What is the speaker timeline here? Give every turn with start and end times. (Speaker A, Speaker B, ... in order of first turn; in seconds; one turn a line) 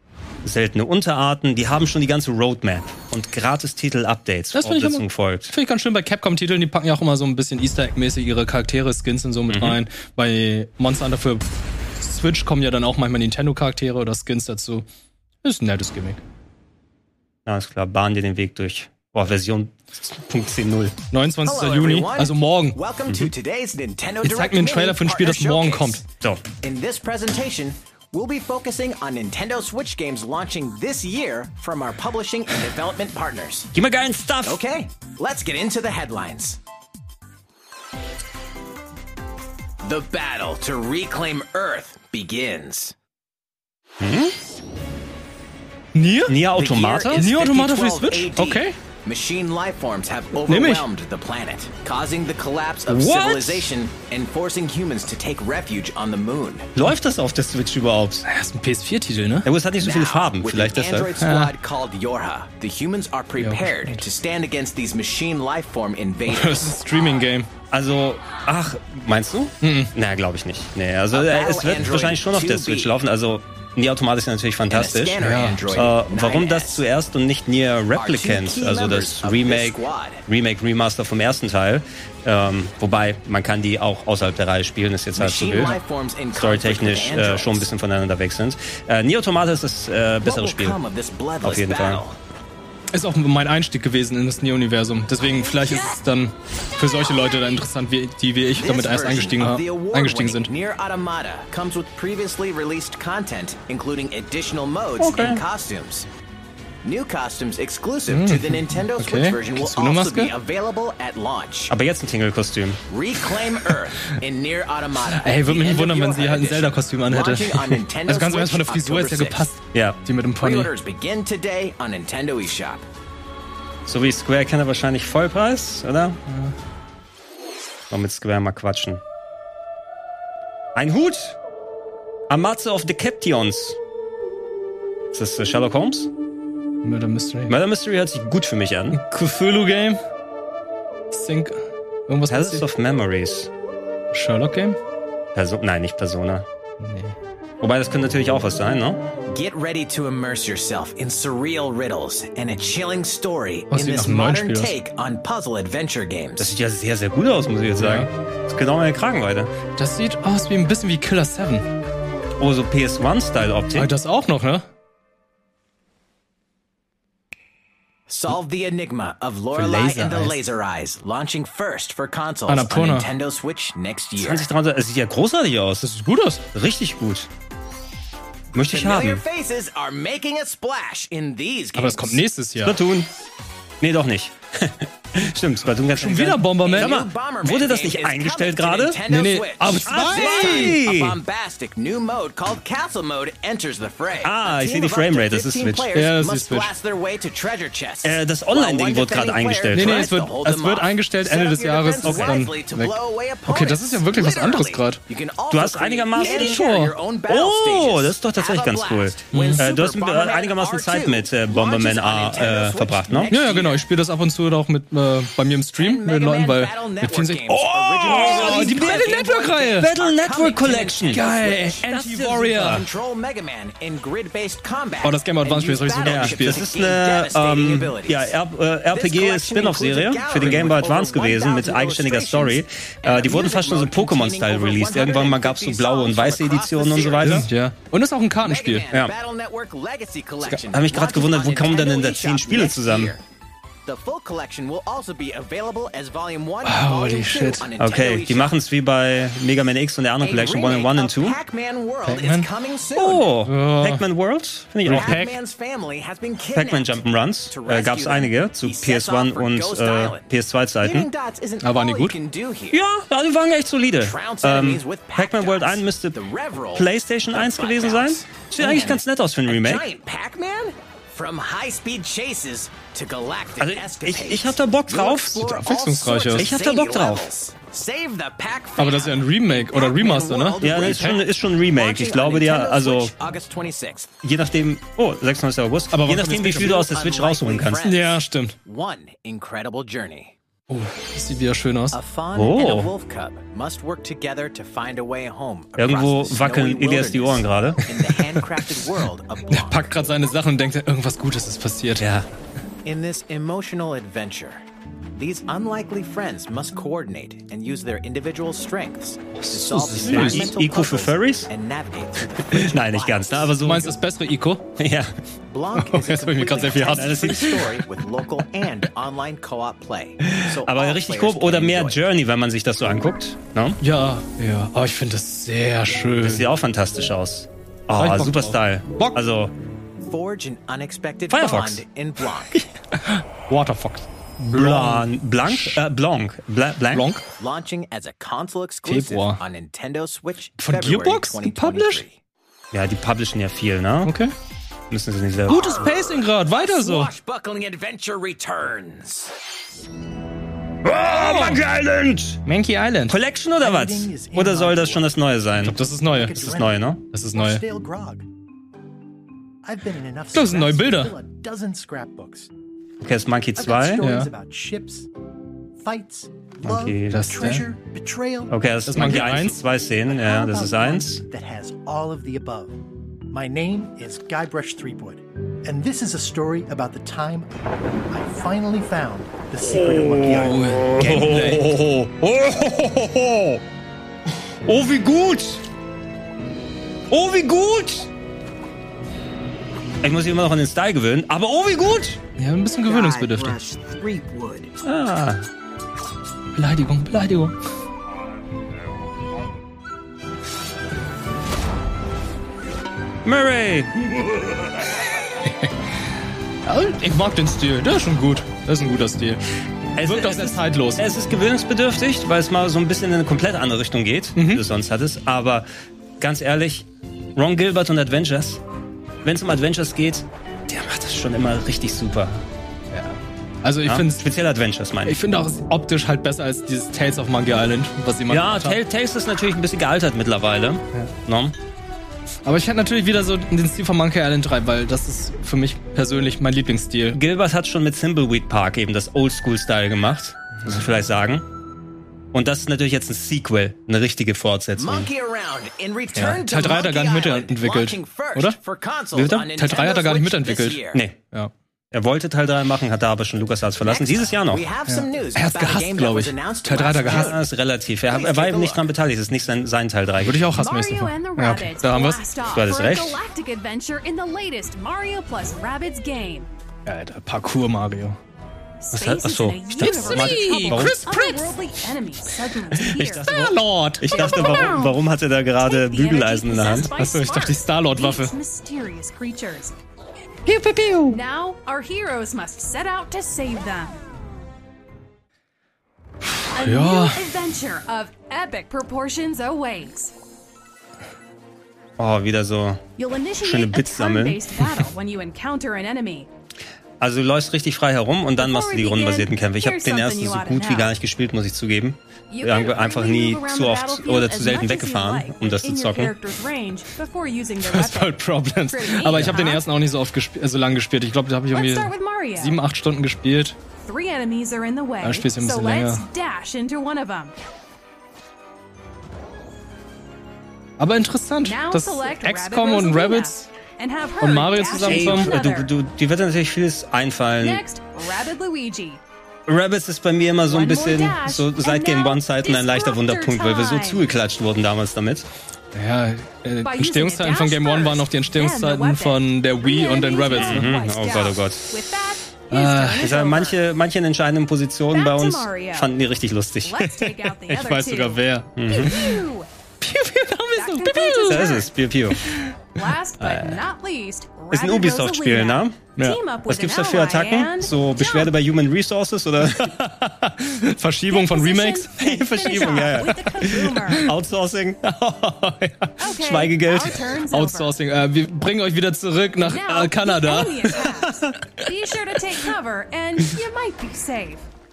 Speaker A: 0.4-5.5
Speaker B: 4.5-11.4
Speaker A: 9.5-9.8
Speaker B: 12.0-14.8
Speaker B: 15.4-16.2
Speaker A: 17.5-20.9
Speaker B: 21.1-22.8
Speaker C: 21.4-26.0
Speaker B: 24.2-26.0
Speaker C: 26.6-33.7
Speaker A: 33.7-34.6
Speaker C: 34.4-36.6
Speaker C: 39.8-43.0
Speaker A: 44.0-44.3
Speaker B: 45.9-46.5
Speaker A: 46.3-47.3
Speaker C: 46.5-56.7
Speaker B: 47.1-48.8
Speaker B: 50.5-50.9
Speaker A: 52.9-53.7
Speaker A: 56.8-58.2
Speaker B: 58.3-59.5
Speaker A: 59.5-61.1
Speaker C: 59.8-66.8
Speaker B: 61.2-61.6
Speaker B: 63.4-64.0
Speaker B: 66.3-67.5
Speaker A: 67.7-75.2
Speaker B: 69.6-69.9
Speaker C: 71.1-73.0
Speaker C: 74.7-76.8
Speaker B: 75.2-75.8
Speaker A: 75.7-85.8
Speaker C: 77.9-80.2
Speaker C: 85.2-87.7
Speaker A: 86.3-90.8
Speaker C: 90.2-92.2
Speaker A: 91.4-92.0
Speaker B: 92.9-100.5
Speaker C: 98.5-106.1
Speaker A: 105.0-105.4
Speaker C: 106.8-111.7
Speaker B: 108.1-110.3
Speaker A: 111.7-112.8
Speaker C: 112.9-119.5
Speaker B: 115.1-120.7
Speaker C: 120.4-122.9
Speaker A: 123.9-126.2
Speaker B: 126.3-126.5
Speaker A: 127.9-129.0
Speaker A: 130.8-131.4
Speaker A: 132.3-133.8
Speaker A: 135.1-136.1
Speaker B: 136.8-137.6
Speaker A: 137.5-139.0
Speaker B: 138.9-140.0
Speaker B: 141.1-142.6
Speaker A: 142.3-143.5
Speaker B: 144.1-144.8
Speaker A: 145.3-146.4
Speaker B: 146.8-147.2
Speaker A: 147.6-149.0
Speaker C: 149.3-156.5
Speaker B: 153.7-154.8
Speaker A: 156.4-159.5
Speaker B: 157.8-158.1
Speaker B: 159.8-161.7
Speaker A: 162.4-163.9
Speaker B: 163.8-164.7
Speaker C: 168.1-174.5
Speaker B: 169.5-170.4
Speaker B: 172.5-173.1
Speaker A: 174.2-175.9
Speaker B: 175.8-176.4
Speaker A: 176.5-177.3
Speaker A: 178.5-179.2
Speaker C: 178.6-182.3
Speaker B: 181.8-182.8
Speaker A: 182.6-183.1
Speaker A: 183.8-189.0
Speaker B: 186.0-187.0
Speaker C: 186.6-213.9
Speaker B: 189.1-190.8
Speaker A: 189.8-191.2
Speaker A: 194.2-195.9
Speaker B: 195.9-196.7
Speaker A: 198.0-200.1
Speaker B: 199.7-205.0
Speaker A: 202.0-202.4
Speaker A: 205.5-206.7
Speaker B: 206.2-207.0
Speaker A: 207.3-213.3
Speaker B: 209.3-209.7
Speaker B: 213.3-219.9
Speaker C: 215.8-221.8
Speaker A: 218.0-219.1
Speaker A: 219.8-221.3
Speaker B: 221.1-222.9
Speaker A: 221.8-222.8
Speaker C: 222.6-228.3
Speaker B: 225.0-226.7
Speaker A: 226.0-237.5
Speaker C: 228.9-237.4
Speaker B: 237.2-238.9
Speaker C: 238.4-243.2
Speaker A: 240.7-243.1
Speaker C: 243.9-248.6
Speaker B: 246.6-247.7
Speaker A: 247.8-251.4
Speaker C: 250.2-253.3
Speaker B: 252.0-252.5
Speaker A: 253.0-255.2
Speaker B: 253.5-254.1
Speaker B: 254.8-255.4
Speaker C: 254.9-260.3
Speaker A: 256.6-261.1
Speaker C: 260.8-262.8
Speaker B: 261.6-262.1
Speaker A: 262.7-266.2
Speaker C: 264.0-284.1
Speaker A: 266.8-269.9
Speaker A: 273.6-275.4
Speaker B: 275.4-276.5
Speaker A: 276.4-277.3
Speaker B: 278.8-281.2
Speaker A: 280.6-283.1
Speaker A: 284.2-287.9
Speaker B: 285.9-286.9
Speaker C: 286.5-290.4
Speaker B: 287.8-288.6
Speaker B: 290.7-292.0
Speaker C: 291.9-300.0
Speaker A: 292.3-292.9
Speaker A: 295.8-297.8
Speaker B: 299.5-302.1
Speaker A: 302.0-302.3
Speaker C: 302.8-304.6
Speaker C: 305.1-313.6
Speaker B: 309.4-310.5
Speaker A: 309.7-311.5
Speaker A: 312.4-314.0
Speaker B: 313.6-314.7
Speaker A: 314.8-315.1
Speaker C: 315.5-322.0
Speaker B: 315.8-317.7
Speaker A: 316.9-317.7
Speaker A: 320.3-323.8
Speaker B: 323.8-326.5
Speaker A: 326.2-329.5
Speaker B: 328.0-329.2
Speaker C: 330.0-332.6
Speaker A: 331.3-331.8
Speaker B: 332.6-335.8
Speaker A: 334.5-337.1
Speaker B: 336.9-337.2
Speaker C: 337.4-342.2
Speaker B: 338.9-339.4
Speaker B: 340.6-342.0
Speaker A: 342.7-344.1
Speaker B: 344.0-344.3
Speaker A: 344.9-345.9
Speaker B: 345.5-347.1
Speaker C: 345.5-349.3
Speaker A: 350.8-352.4
Speaker B: 351.1-351.6
Speaker B: 352.4-353.2
Speaker A: 353.1-355.8
Speaker D: 353.6-355.2
Speaker B: 355.6-356.4
Speaker D: 356.0-358.3
Speaker A: 356.4-357.0
Speaker B: 357.1-357.6
Speaker D: 359.6-362.5
Speaker B: 360.3-361.1
Speaker A: 363.0-364.1
Speaker D: 363.6-365.1
Speaker B: 364.0-364.3
Speaker D: 365.8-369.4
Speaker A: 366.6-367.2
Speaker B: 367.1-367.6
Speaker A: 368.5-371.2
Speaker B: 368.9-369.6
Speaker D: 370.0-377.5
Speaker D: 378.1-381.2
Speaker A: 379.8-383.6
Speaker B: 380.4-381.8
Speaker A: 384.6-385.6
Speaker A: 387.1-388.1
Speaker A: 390.0-392.2
Speaker B: 392.4-393.6
Speaker C: 392.9-394.7
Speaker A: 394.8-395.4
Speaker B: 396.6-397.6
Speaker A: 403.2-404.3
Speaker B: 405.4-405.7
Speaker B: 406.6-409.4
Speaker A: 410.0-415.7
Speaker B: 410.0-411.1
Speaker B: 414.4-414.6
Speaker A: 416.2-418.6
Speaker A: 419.2-422.4
Speaker B: 422.9-424.3
Speaker A: 423.9-425.2
Speaker B: 425.1-428.8
Speaker A: 428.3-431.6
Speaker B: 432.4-437.2
Speaker A: 437.1-441.5
Speaker A: 442.3-445.1
Speaker C: 444.8-451.0
Speaker B: 446.1-448.6
Speaker B: 449.1-451.5
Speaker A: 451.9-454.7
Speaker C: 453.8-457.4
Speaker B: 454.9-457.4
Speaker A: 457.0-460.5
Speaker C: 458.1-458.9
Speaker B: 460.2-462.2
Speaker E: 460.6-466.5
Speaker A: 462.5-463.2
Speaker B: 466.9-468.2
Speaker E: 468.8-473.5
Speaker A: 468.9-471.0
Speaker B: 469.8-471.6
Speaker A: 472.8-476.9
Speaker B: 473.2-474.9
Speaker E: 474.0-475.0
Speaker E: 475.6-479.7
Speaker B: 476.9-478.3
Speaker B: 480.5-481.2
Speaker E: 481.1-484.0
Speaker B: 486.4-487.2
Speaker E: 486.5-490.1
Speaker A: 492.0-492.8
Speaker E: 493.0-496.3
Speaker A: 493.4-494.4
Speaker A: 497.0-506.1
Speaker E: 498.4-500.9
Speaker E: 502.3-509.6
Speaker B: 507.6-513.6
Speaker E: 511.5-512.6
Speaker E: 513.8-517.4
Speaker B: 515.0-516.0
Speaker B: 520.8-523.5
Speaker E: 521.5-525.7
Speaker B: 524.2-525.3
Speaker A: 524.7-527.6
Speaker E: 527.4-529.0
Speaker A: 529.5-535.3
Speaker E: 530.5-534.1
Speaker B: 535.7-540.7
Speaker E: 536.6-543.6
Speaker A: 540.3-541.6
Speaker B: 542.5-543.1
Speaker A: 543.0-546.9
Speaker E: 544.9-546.0
Speaker E: 546.6-549.5
Speaker B: 547.1-549.2
Speaker A: 548.6-549.0
Speaker B: 549.8-551.6
Speaker E: 550.5-551.7
Speaker A: 551.3-552.2
Speaker B: 552.2-552.5
Speaker E: 552.7-558.4
Speaker B: 553.2-553.6
Speaker A: 554.5-555.8
Speaker A: 556.5-559.9
Speaker B: 559.6-561.9
Speaker E: 561.1-564.1
Speaker A: 562.0-567.0
Speaker E: 566.0-567.8
Speaker B: 567.3-571.0
Speaker E: 569.4-574.5
Speaker A: 571.1-571.3